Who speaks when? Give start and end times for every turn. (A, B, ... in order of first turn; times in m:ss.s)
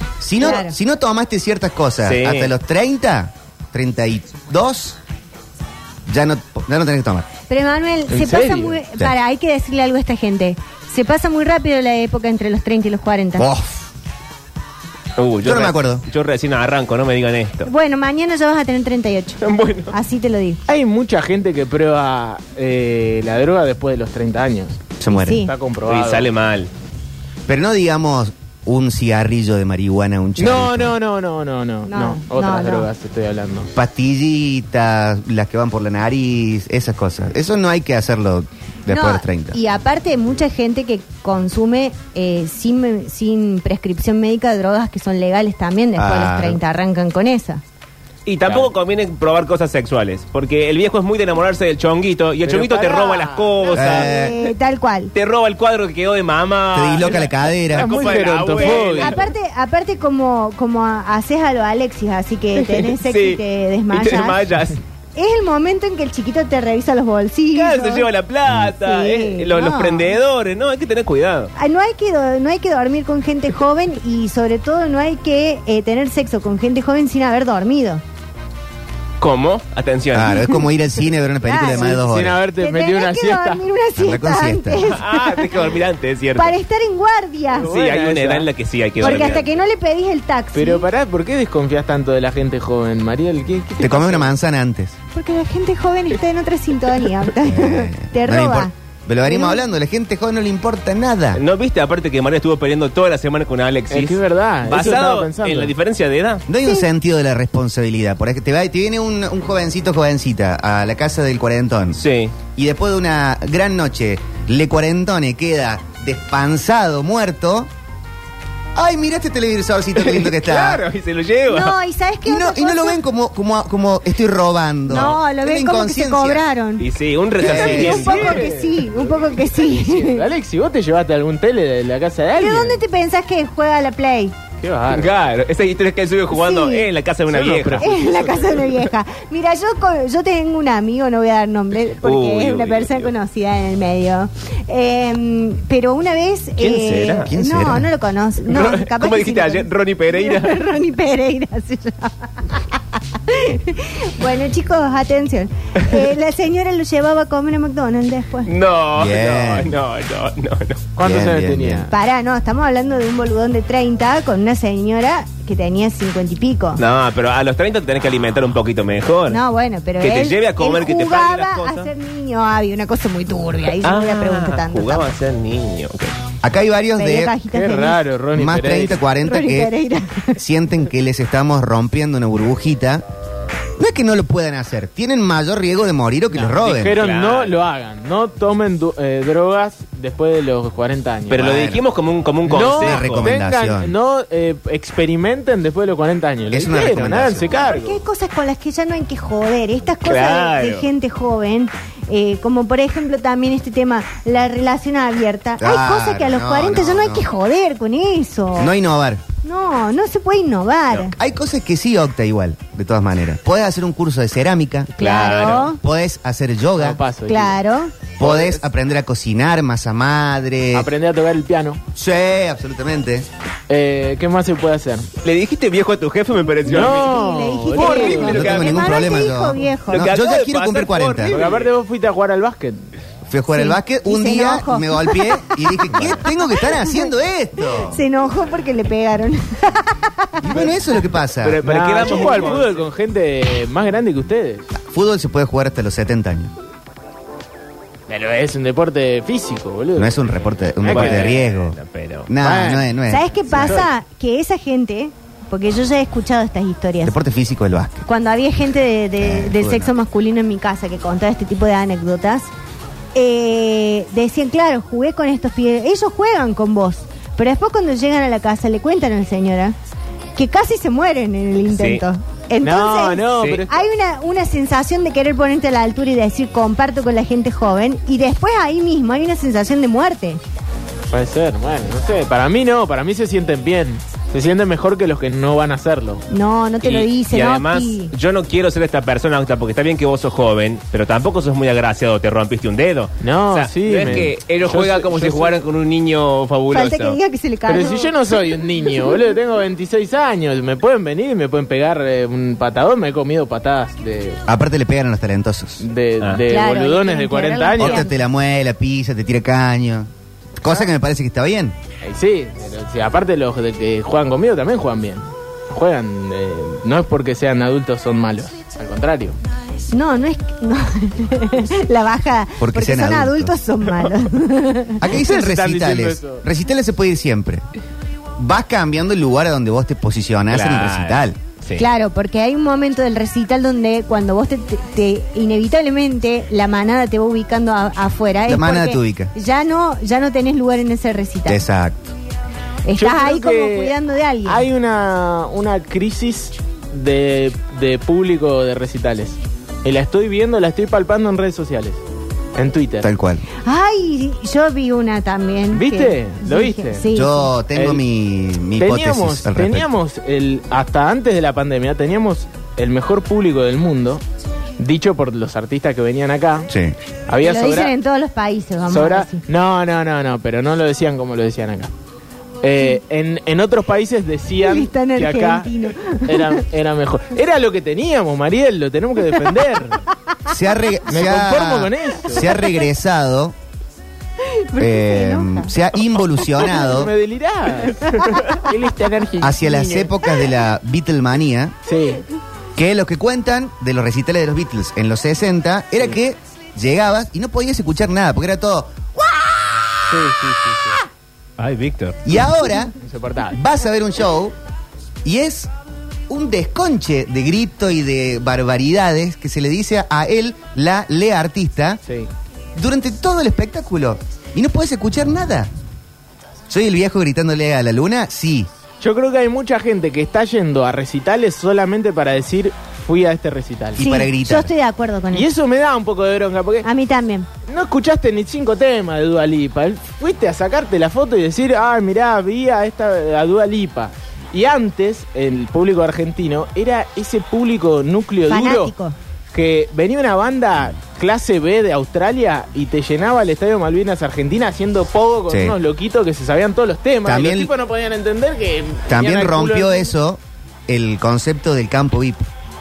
0:00.2-0:05.0 A
0:00.4-0:00.7 B
0:02.0-0:02.5 C
0:06.1-0:07.3 A
0:07.5-0:13.5 B
0:08.2-0:08.6 D
0:13.4-0:13.9 A
0:15.2-0:17.7 C
0:15.4-0:16.0 A
0:17.6-0:20.6 B
0:19.4-0:19.9 C
0:20.7-0:24.8 D
0:25.0-0:25.5 A
0:25.1-0:25.5 B
0:25.3-0:26.3 D
0:25.8-0:26.7 C
0:27.5-0:31.0 A
0:30.4-0:33.7 D
0:31.9-0:32.9 B
0:33.7-0:39.6 A
0:38.9-0:47.6 B
0:46.0-0:46.6 A
0:48.2-0:54.1 C
0:52.4-0:54.1 D
0:53.7-0:54.3 A
0:54.0-0:55.1 B
0:55.1-0:59.2 C
0:56.7-0:58.1 A
0:57.7-0:59.3 D
0:58.5-1:04.4 B
1:02.6-1:04.8 C
1:05.2-1:10.2 B
1:07.5-1:11.5 C
1:11.6-1:18.0 B
1:19.2-1:20.5 C
1:20.1-1:22.4 A
1:20.4-1:20.6 B
1:21.4-1:21.9 B
1:21.7-1:23.6 D
1:22.6-1:25.6 B
1:24.0-1:24.9 A
1:24.8-1:26.6 C
1:26.4-1:27.7 B
1:27.5-1:28.5 D
1:27.6-1:29.4 C
1:29.0-1:29.4 D
1:29.0-1:30.9 B
1:30.5-1:34.3 D
1:33.8-1:35.0 A
1:35.1-1:38.7 B
1:37.4-1:41.4 A
1:39.2-1:39.6 B
1:41.3-1:46.4 C
1:43.9-1:45.7 D
1:46.5-1:52.0 A
1:51.9-1:52.3 C
1:52.5-1:57.7 A
1:58.7-2:00.8 A
2:00.0-2:01.8 C
2:01.5-2:03.0 B
2:02.2-2:06.4 A
2:04.9-2:06.8 B
2:06.8-2:08.4 C
2:07.4-2:08.1 A
2:07.4-2:10.3 B
2:07.5-2:12.8 D
2:12.3-2:14.4 B
2:14.6-2:15.2 D
2:14.9-2:18.7 C
2:16.3-2:16.9 B
2:17.3-2:18.4 D
2:17.8-2:38.5 B
2:22.0-2:23.1 C
2:26.6-2:27.3 C
2:27.2-2:27.9 A
2:28.4-2:30.6 C
2:38.4-2:40.8 C
2:38.9-2:39.8 A
2:41.0-2:41.9 D
2:41.0-2:41.9 A
2:41.9-2:46.8 B
2:46.8-2:49.4 C
2:49.3-2:55.2 B
2:50.0-2:51.9 C
2:53.8-2:56.2 C
2:56.4-2:57.3 A
2:57.0-2:58.0 B
2:57.5-2:59.0 D
2:58.3-2:59.7 A
2:59.2-3:00.4 B
3:00.4-3:03.0 A
3:03.8-3:07.0 A
3:06.3-3:11.6 D
3:06.8-3:07.6 C
3:11.3-3:13.3 C
3:11.3-3:11.8 A
3:12.5-3:18.0 D
3:12.6-3:13.9 A
3:16.5-3:17.6 A
3:17.6-3:28.7 B
3:20.0-3:20.9 C
3:25.6-3:27.3 A
3:28.6-3:29.2 A
3:29.4-3:31.1 B
3:31.2-3:34.9 A
3:35.0-3:35.8 B
3:35.0-3:35.7 C
3:35.7-3:37.0 A
3:36.8-3:37.6 D
3:37.3-3:37.9 B
3:38.2-3:40.9 A
3:38.2-3:38.6 D
3:40.7-3:41.8 D
3:41.9-3:43.3 A
3:43.7-3:45.1 D
3:45.2-3:47.2 C
3:46.6-3:48.6 D
3:46.7-3:50.1 B
3:47.7-3:49.1 C
3:48.3-3:51.4 A
3:49.9-3:51.7 C
3:51.3-3:52.8 D
3:53.3-3:58.0 A
3:53.5-4:00.4 B
4:00.4-4:01.6 A
4:01.4-4:04.7 D
4:01.6-4:02.8 C
4:04.7-4:06.5 A
4:08.1-4:11.4 D
4:09.9-4:13.8 A
4:10.9-4:12.3 C
4:12.4-4:12.9 D
4:13.1-4:17.2 B
4:13.5-4:13.9 D
4:17.0-4:18.0 A
4:18.0-4:22.5 B
4:19.2-4:19.9 A
4:23.1-4:29.8 B
4:30.4-4:40.4 B
4:31.7-4:32.0 C
4:32.6-4:33.7 D
4:33.4-4:33.6 C
4:41.1-4:46.2 D
4:46.3-4:48.1 B
4:46.8-4:57.2 C
4:53.2-4:55.5 D
4:56.7-4:58.1 B
4:57.7-5:04.4 D
5:04.5-5:05.8 A
5:05.8-5:08.0 D
5:06.5-5:08.1 B
5:07.8-5:11.8 A
5:12.0-5:19.4 D
5:19.9-5:25.0 B
5:22.6-5:23.5 A
5:25.0-5:27.6 A
5:25.1-5:26.4 D
5:28.4-5:31.4 A
5:30.5-5:31.9 C
5:31.8-5:41.6 B
5:38.4-5:39.3 A
5:41.5-5:42.1 A
5:42.8-5:44.6 B
5:43.0-5:43.9 D
5:44.4-5:52.0 D
5:52.6-5:53.1 D
5:53.0-5:53.4 A
5:53.6-5:57.5 B
5:55.7-5:57.0 D
5:57.1-5:59.9 A
5:57.7-5:58.0 D
5:58.8-6:04.2 D
6:04.8-6:06.7 D
6:06.7-6:06.9 A
6:07.3-6:07.9 D
6:07.4-6:09.4 B
6:08.9-6:11.9 D
6:12.6-6:15.7 D
6:14.6-6:16.6 B
6:16.2-6:20.0 D
6:20.5-6:23.5 A
6:21.1-6:22.5 D
6:24.4-6:25.7 B
6:24.8-6:27.1 A
6:26.7-6:30.1 D
6:29.4-6:31.7 A
6:31.9-6:32.2 D
6:32.8-6:40.3 A
6:40.1-6:41.0 D
6:41.6-6:42.2 C
6:42.2-6:42.9 A
6:43.0-6:43.6 D
6:43.5-6:44.5 A
6:45.2-6:45.7 A
6:46.3-6:52.0 A
6:52.7-6:55.7 A
6:56.7-6:58.7 A
6:59.0-7:04.0 D
7:04.0-7:04.7 A
7:04.0-7:05.5 B
7:05.3-7:06.9 D
7:06.8-7:07.5 B
7:07.6-7:18.9 D
7:18.5-7:19.2 B
7:19.5-7:30.1 D
7:25.5-7:25.8 A
7:27.2-7:27.7 A
7:29.1-7:32.5 A